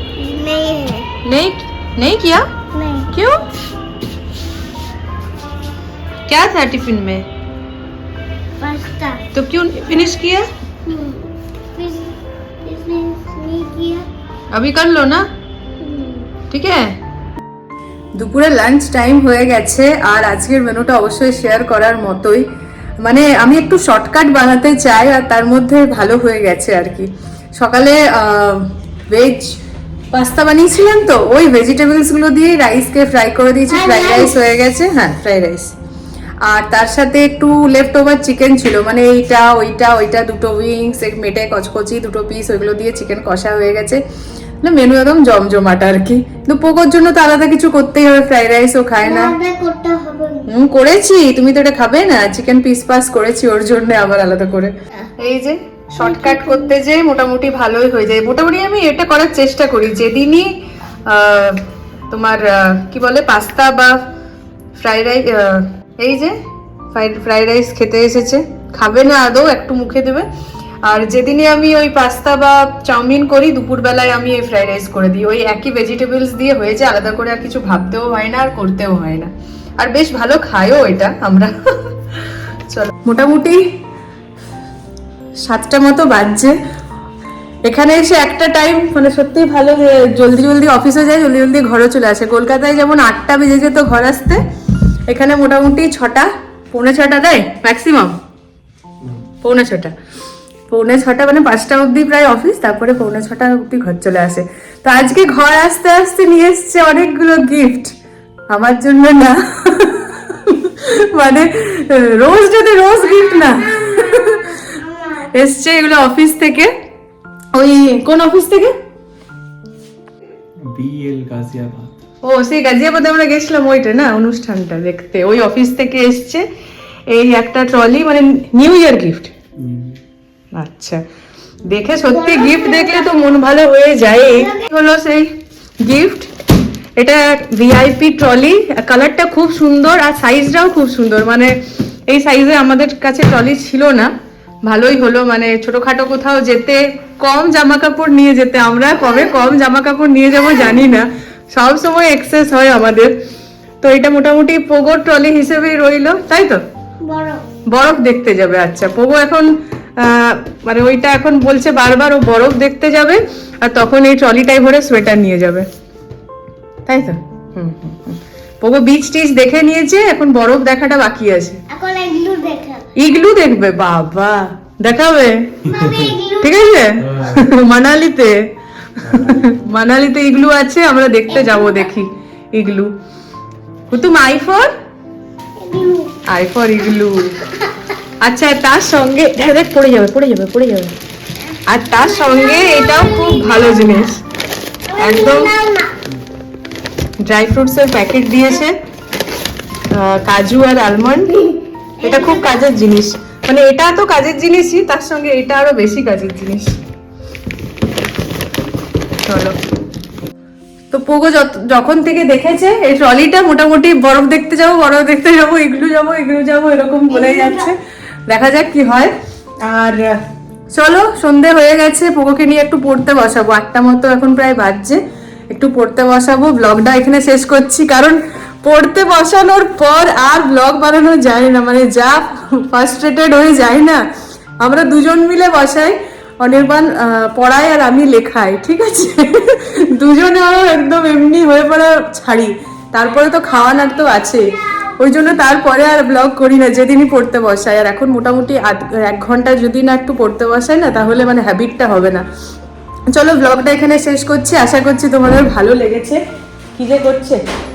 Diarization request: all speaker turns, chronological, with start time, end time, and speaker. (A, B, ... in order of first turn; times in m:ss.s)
0:00.2-0:01.1 A
0:01.2-0:02.5 B
0:02.8-0:03.1 A
0:03.1-0:03.4 B
0:06.3-0:07.3 B
0:08.6-0:09.2 A
0:09.3-0:10.5 B
0:10.8-0:12.1 A
0:12.6-0:14.1 A
0:14.5-0:15.3 B
0:15.8-0:16.3 A
0:16.5-0:17.0 B
0:18.2-0:22.5 B
0:23.0-0:29.5 B
0:30.1-0:35.7 B
0:36.4-0:44.0 B
0:44.6-0:49.4 B
0:49.0-0:50.4 A
0:50.5-1:00.5 B
0:56.0-0:56.7 A
1:01.1-1:04.0 B
1:04.8-1:06.4 B
1:06.9-1:10.3 B
1:10.8-1:22.0 B
1:22.7-1:23.7 B
1:25.4-1:26.6 B
1:27.6-1:34.4 B
1:35.1-1:38.1 B
1:39.4-1:40.0 B
1:40.7-1:48.0 B
1:48.5-1:56.7 B
1:57.5-1:58.8 B
2:00.6-2:01.9 C
2:02.2-2:06.4 B
2:07.1-2:09.3 B
2:09.6-2:10.0 C
2:10.5-2:11.0 B
2:11.7-2:15.3 B
2:15.8-2:16.3 B
2:17.0-2:21.6 B
2:22.1-2:24.1 B
2:24.7-2:33.2 B
2:33.8-2:36.6 B
2:37.0-2:37.4 A
2:37.7-2:45.7 B
2:46.9-2:51.6 B
2:51.7-2:52.8 A
2:53.0-2:55.8 B
2:55.7-2:56.4 A
2:55.9-2:56.2 C
2:56.4-2:58.4 B
2:57.0-2:57.5 C
2:59.0-3:02.9 B
2:59.1-2:59.4 C
3:03.9-3:04.7 B
3:05.6-3:06.2 A
3:06.3-3:07.5 B
3:08.2-3:11.0 B
3:11.7-3:14.2 B
3:14.9-3:15.9 A
3:15.0-3:15.6 B
3:17.2-3:18.8 B
3:19.9-3:26.8 B
3:29.3-3:29.6 B
3:30.9-3:37.8 B
3:38.3-3:39.1 B
3:39.6-3:40.1 B
3:40.7-3:45.0 B
3:45.5-3:54.0 B
3:54.6-4:12.2 B
4:13.1-4:16.2 B
4:16.8-4:17.4 B